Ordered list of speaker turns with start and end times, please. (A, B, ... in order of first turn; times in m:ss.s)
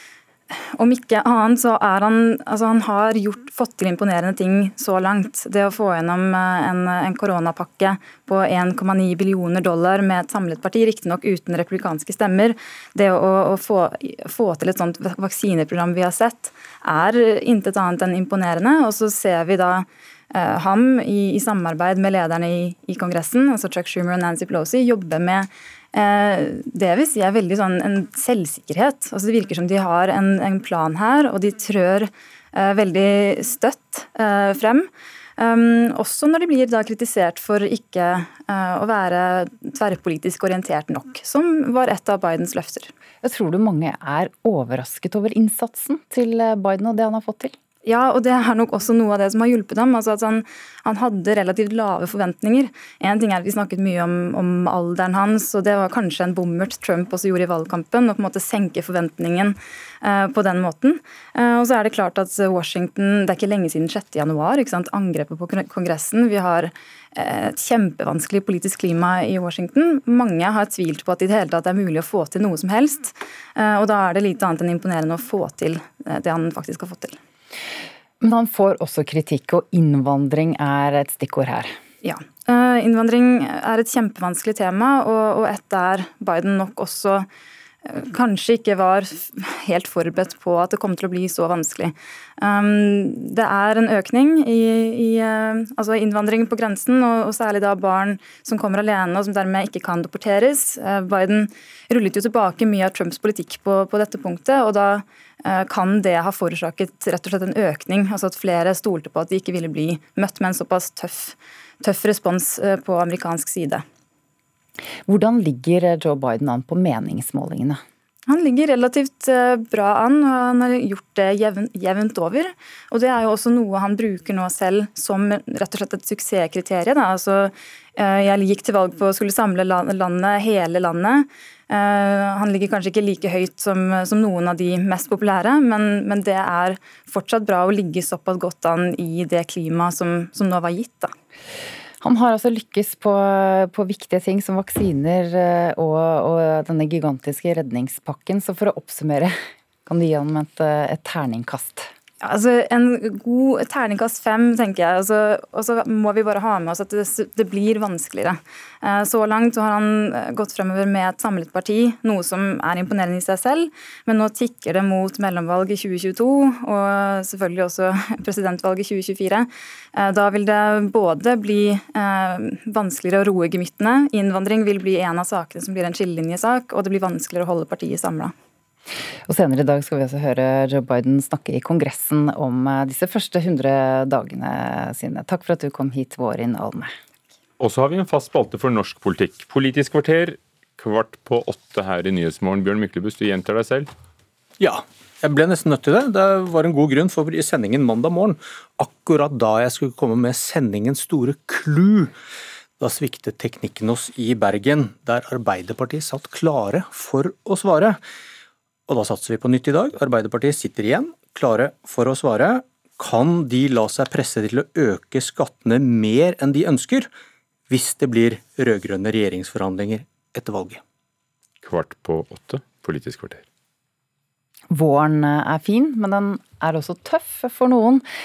0:00.8-0:42.9 A
0:43.2-0:47.6 B
0:47.8-1:17.2 A
1:18.2-1:21.7 B
1:22.0-1:27.3 A
1:27.8-1:53.8 A
1:55.1-1:57.8 B
1:58.3-2:21.1 A
2:22.0-2:31.9 B
2:32.2-2:58.3 A
2:59.3-3:06.9 B
3:07.6-3:13.9 C
3:14.6-3:22.1 D
3:22.8-3:28.0 D
3:28.9-3:37.1 D
3:37.7-3:40.8 D
3:41.6-3:43.4 C
3:44.7-3:48.0 B